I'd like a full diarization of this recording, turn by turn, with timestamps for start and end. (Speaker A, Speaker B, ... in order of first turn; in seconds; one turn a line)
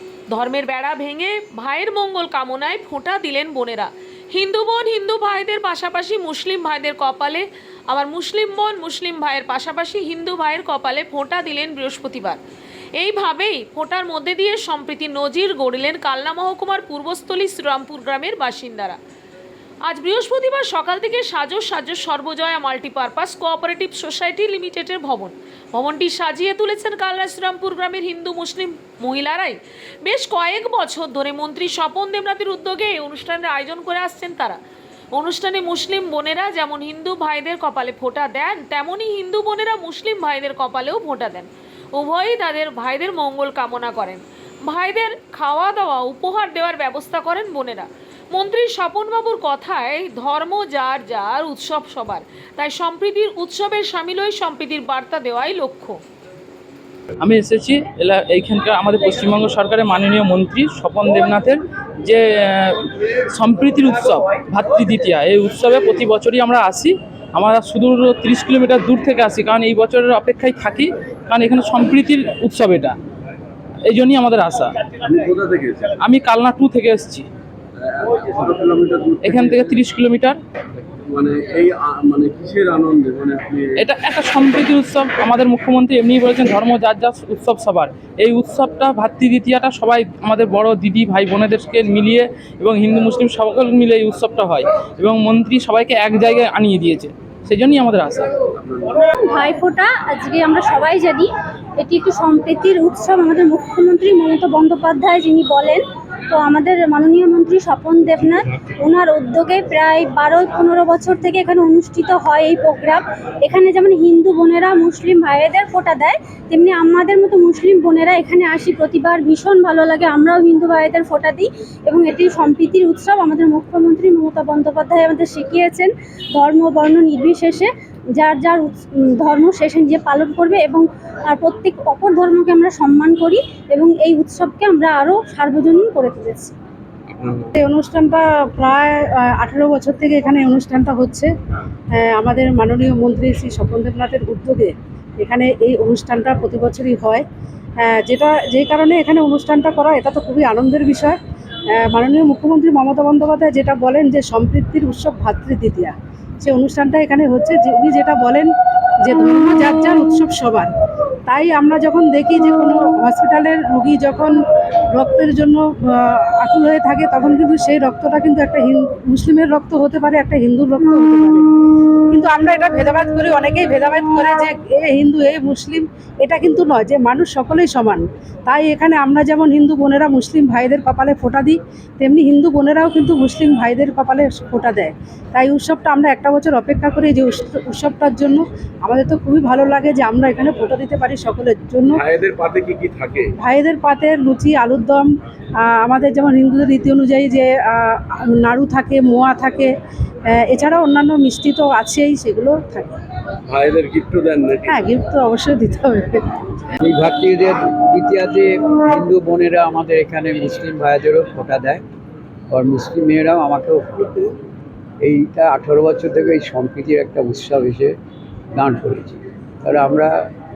Speaker A: 0.3-12.4
Speaker A: 13.0-19.0
Speaker A: 19.9-34.6
Speaker A: 35.1-56.0
Speaker B: 57.2-73.0
Speaker B: 73.8-74.8
Speaker C: 75.0-75.9
Speaker B: 76.0-77.3
Speaker C: 77.8-79.8
Speaker B: 79.2-80.4
Speaker C: 80.9-83.9
Speaker B: 83.8-98.3
Speaker C: 98.6-99.0
Speaker D: 99.2-136.5
Speaker C: 137.1-137.5
Speaker E: 137.6-141.3
Speaker E: 141.9-147.2
Speaker E: 147.8-151.2
Speaker E: 151.7-158.5
Speaker E: 159.0-160.7
Speaker E: 161.3-164.3
Speaker E: 164.9-171.5
Speaker E: 172.1-192.0
Speaker C: 191.9-193.3
Speaker E: 193.4-195.1
Speaker E: 195.6-199.7
Speaker E: 200.3-202.9
Speaker C: 203.5-204.8
Speaker E: 204.7-206.4
Speaker F: 206.8-211.8
Speaker F: 212.5-214.3
Speaker F: 215.0-217.9
Speaker F: 218.6-220.1